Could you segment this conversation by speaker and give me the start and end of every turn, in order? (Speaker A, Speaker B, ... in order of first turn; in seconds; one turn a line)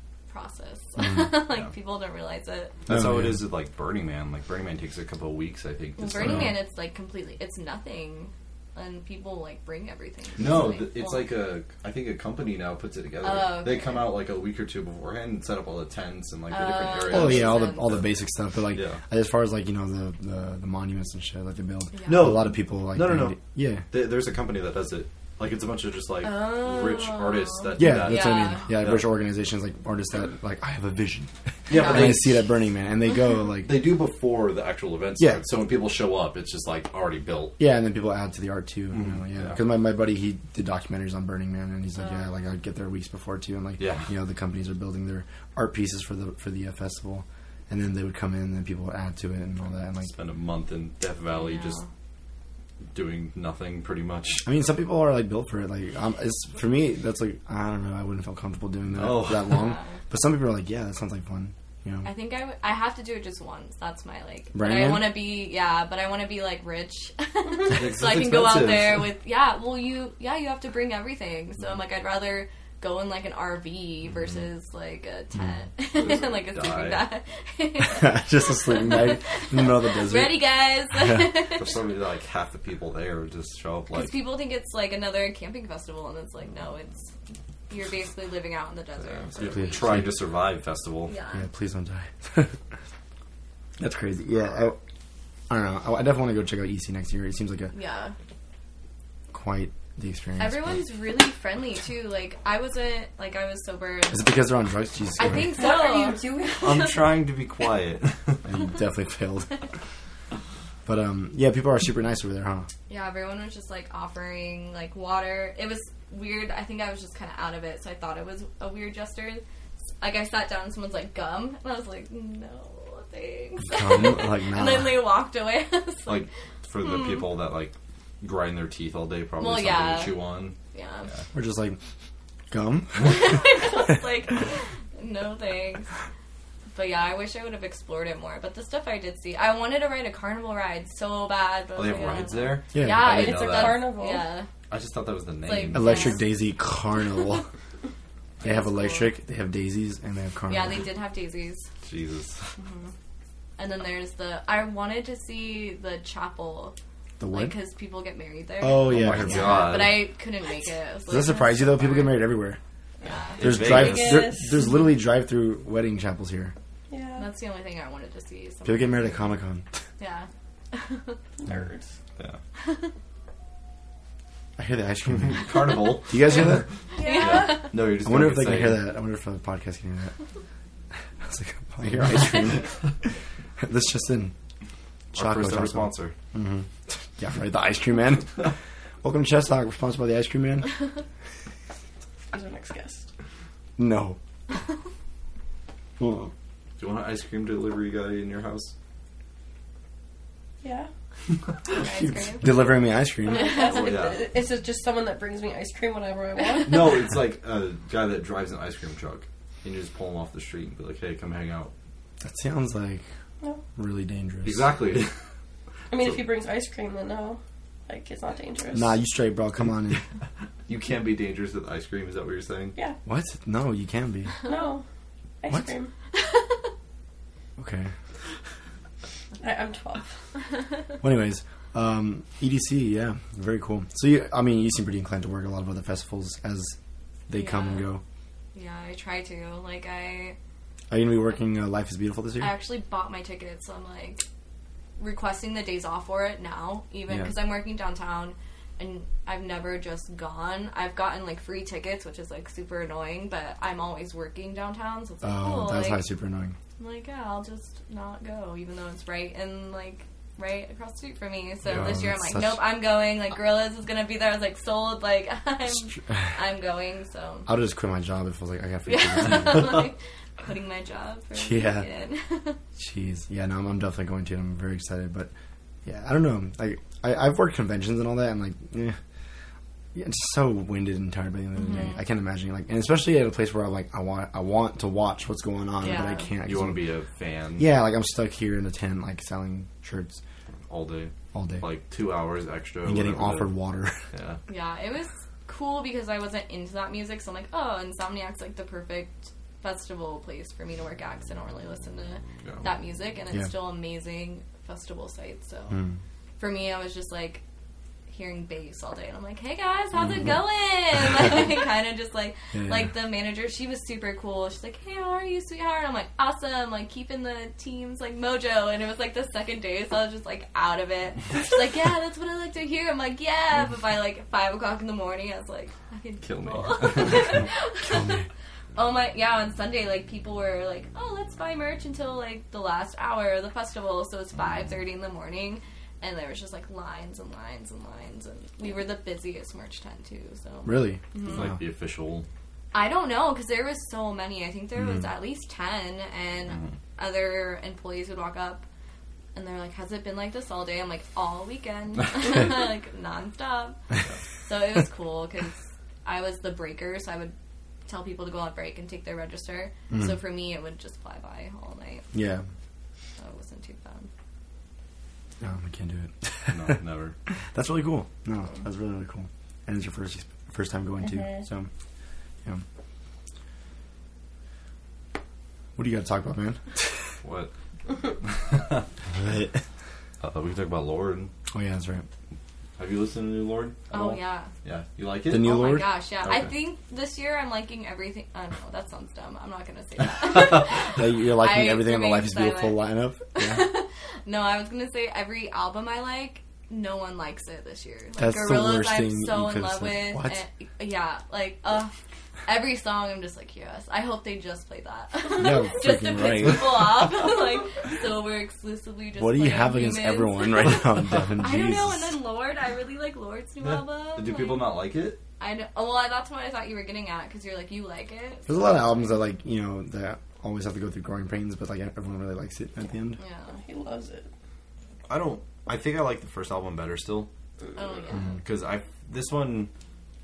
Speaker A: 0.3-2.7
Speaker B: 2.9-6.5
Speaker C: 2.9-3.4
Speaker A: 6.0-11.3
Speaker C: 6.2-6.5
Speaker B: 10.4-18.0
Speaker A: 13.2-14.1
Speaker A: 16.5-18.0
Speaker C: 17.1-23.9
Speaker B: 18.7-19.0
Speaker A: 21.9-22.2
Speaker B: 22.1-29.1
Speaker A: 26.2-28.7
Speaker C: 27.8-33.8
Speaker B: 31.7-32.4
Speaker A: 31.7-32.0
Speaker B: 33.6-37.5
Speaker C: 37.6-50.1
Speaker B: 38.9-39.6
Speaker B: 43.8-44.1
Speaker B: 50.0-51.8
Speaker A: 51.3-51.9
Speaker B: 52.9-54.4
Speaker C: 54.4-62.1
Speaker B: 58.9-59.7
Speaker A: 59.5-60.0
Speaker A: 62.0-81.8
Speaker C: 64.5-65.2
Speaker B: 67.6-69.1
Speaker B: 75.9-77.0
Speaker C: 77.9-81.3
Speaker B: 81.5-84.2
Speaker A: 83.9-87.1
Speaker A: 87.7-89.8
Speaker B: 89.2-91.1
Speaker C: 89.4-90.1
Speaker A: 91.1-91.5
Speaker C: 91.3-92.6
Speaker C: 93.8-94.8
Speaker C: 95.5-97.7
Speaker A: 97.7-98.1
Speaker C: 99.3-100.8
Speaker A: 100.4-104.4
Speaker C: 104.1-105.5
Speaker A: 105.2-106.8
Speaker D: 105.5-107.2
Speaker B: 106.6-108.4
Speaker C: 108.4-109.5
Speaker C: 110.8-112.7
Speaker A: 112.9-119.4
Speaker A: 120.0-126.3
Speaker C: 123.6-125.1
Speaker B: 126.0-130.6
Speaker A: 126.8-127.3
Speaker A: 129.4-131.1
Speaker C: 131.3-131.8
Speaker C: 132.5-133.8
Speaker A: 133.0-135.9
Speaker A: 136.7-144.5
Speaker B: 141.7-143.9
Speaker C: 142.7-143.2
Speaker D: 143.0-144.3
Speaker B: 144.7-146.2
Speaker A: 145.4-146.3
Speaker C: 145.7-147.4
Speaker A: 148.4-149.1
Speaker C: 148.4-150.8
Speaker A: 150.5-151.7
Speaker B: 151.8-152.5
Speaker A: 152.6-152.9
Speaker A: 153.6-156.7
Speaker C: 157.2-157.5
Speaker A: 157.3-162.3
Speaker C: 158.6-159.8
Speaker B: 158.8-160.1
Speaker C: 161.1-162.6
Speaker A: 163.0-163.4
Speaker B: 163.3-164.3
Speaker C: 163.4-166.5
Speaker D: 163.7-164.7
Speaker D: 166.9-167.3
Speaker A: 167.2-169.1
Speaker C: 168.6-169.7
Speaker A: 170.0-171.2
Speaker D: 171.4-171.9
Speaker A: 172.6-172.9
Speaker C: 174.6-176.7
Speaker B: 175.2-178.9
Speaker A: 176.9-177.7
Speaker D: 177.0-177.4
Speaker C: 177.9-180.1
Speaker C: 181.2-184.3
Speaker B: 185.1-186.1
Speaker C: 185.1-190.8
Speaker D: 192.3-193.0
Speaker C: 193.8-194.2
Speaker C: 196.0-196.3
Speaker B: 196.8-198.7
Speaker D: 200.6-200.9
Speaker A: 201.7-202.5
Speaker C: 202.0-203.6
Speaker D: 203.2-206.9
Speaker A: 203.3-203.8
Speaker B: 203.6-204.3
Speaker B: 206.6-211.7
Speaker C: 212.2-213.0
Speaker C: 213.7-214.7
Speaker B: 214.4-215.1
Speaker D: 215.9-218.9
Speaker C: 218.7-220.0
Speaker B: 220.7-222.8
Speaker C: 223.1-224.3
Speaker D: 224.4-224.8
Speaker D: 225.4-225.9
Speaker A: 226.1-226.6
Speaker C: 227.6-227.9
Speaker D: 229.4-230.1
Speaker C: 231.0-236.8
Speaker C: 237.3-238.0
Speaker A: 237.3-237.9
Speaker A: 238.5-240.4
Speaker C: 240.9-242.5
Speaker A: 242.4-244.2
Speaker A: 245.0-256.1
Speaker C: 247.1-247.3
Speaker C: 255.2-256.6
Speaker A: 256.8-267.5
Speaker B: 261.6-262.0
Speaker C: 261.7-262.6
Speaker C: 265.9-266.3
Speaker C: 267.5-269.8
Speaker A: 268.9-272.6
Speaker C: 271.4-271.9
Speaker C: 272.8-275.3
Speaker C: 275.8-279.0
Speaker C: 279.9-286.8
Speaker A: 281.6-282.0
Speaker A: 285.8-286.3
Speaker B: 286.4-287.7
Speaker C: 287.6-290.2
Speaker B: 290.7-293.5
Speaker C: 291.3-291.6
Speaker C: 292.8-294.0
Speaker B: 294.1-294.4
Speaker A: 294.5-305.8
Speaker B: 302.4-302.7
Speaker C: 305.7-306.0
Speaker A: 306.4-307.4
Speaker A: 308.1-328.2
Speaker C: 312.5-312.9
Speaker B: 326.2-327.5
Speaker C: 327.8-328.3
Speaker A: 328.8-341.5
Speaker C: 340.6-341.5
Speaker B: 341.2-342.2
Speaker A: 342.7-348.6
Speaker B: 346.5-346.7
Speaker A: 349.3-353.8
Speaker A: 354.4-357.3
Speaker A: 357.9-362.1
Speaker C: 359.9-360.2
Speaker C: 362.1-362.4
Speaker A: 363.2-364.1
Speaker C: 365.4-366.8
Speaker B: 366.5-367.1
Speaker C: 367.5-371.7
Speaker D: 371.0-371.4
Speaker C: 375.8-377.1
Speaker B: 377.2-378.9
Speaker C: 379.1-379.6
Speaker B: 380.2-381.3
Speaker C: 381.5-382.0
Speaker B: 382.8-385.5
Speaker A: 383.9-384.5
Speaker C: 385.3-385.9
Speaker A: 385.4-401.9
Speaker B: 386.2-386.5
Speaker C: 390.8-393.7
Speaker C: 398.2-400.4
Speaker A: 402.4-414.8
Speaker C: 405.3-407.0
Speaker C: 409.2-412.1
Speaker B: 413.6-415.2
Speaker A: 415.4-419.2
Speaker C: 418.5-423.2
Speaker A: 423.2-423.6
Speaker D: 423.5-424.3
Speaker B: 425.1-427.3
Speaker A: 427.7-428.4
Speaker B: 428.4-429.7